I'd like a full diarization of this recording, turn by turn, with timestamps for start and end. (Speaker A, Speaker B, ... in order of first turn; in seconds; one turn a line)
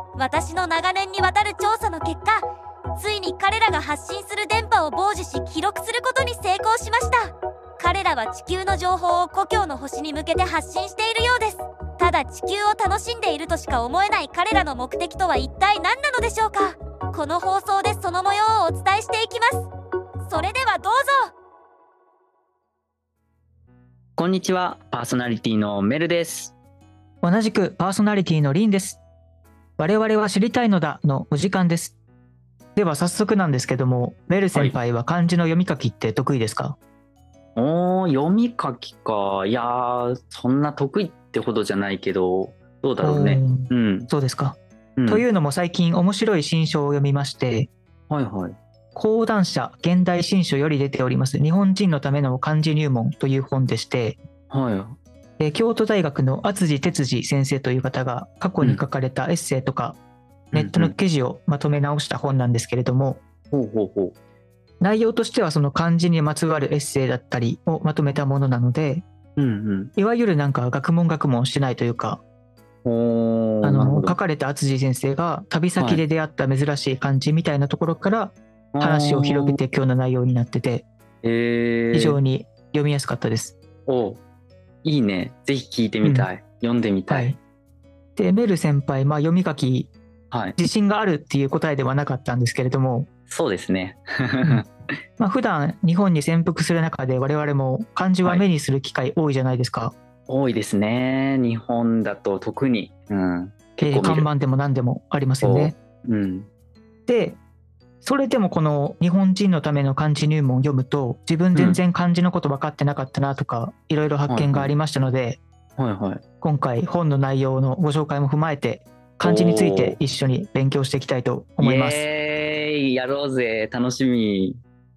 Speaker A: 0.2-2.5
Speaker A: 3.0-19.7
Speaker A: 20.2-21.3
Speaker B: 24.2-26.5
Speaker C: 27.2-29.0
Speaker C: 29.8-31.9
Speaker C: 32.8-36.8
Speaker B: 37.5-44.1
Speaker C: 43.0-47.7
Speaker B: 45.0-45.2
Speaker B: 48.1-48.6
Speaker C: 48.9-54.2
Speaker B: 54.5-55.0
Speaker C: 55.4-60.0
Speaker B: 60.5-60.9
Speaker C: 60.5-63.2
Speaker B: 63.5-64.1
Speaker C: 64.8-69.0
Speaker B: 69.4-69.9
Speaker C: 70.0-72.2
Speaker B: 72.8-74.2
Speaker C: 73.6-80.8
Speaker B: 75.8-76.0
Speaker B: 78.7-79.6
Speaker B: 81.2-82.2
Speaker C: 81.9-83.5
Speaker B: 83.9-84.2
Speaker B: 84.8-87.3
Speaker C: 86.0-86.3
Speaker C: 87.1-87.4
Speaker C: 88.2-89.9
Speaker B: 90.3-90.5
Speaker C: 90.5-93.1
Speaker B: 93.3-94.7
Speaker C: 95.2-99.9
Speaker B: 100.3-104.3
Speaker C: 103.8-105.8
Speaker B: 105.4-106.5
Speaker C: 107.1-107.4
Speaker C: 108.0-115.4
Speaker B: 111.5-111.8
Speaker B: 114.3-114.7
Speaker B: 115.8-116.2
Speaker C: 116.4-122.0
Speaker B: 119.2-120.0
Speaker B: 121.6-124.6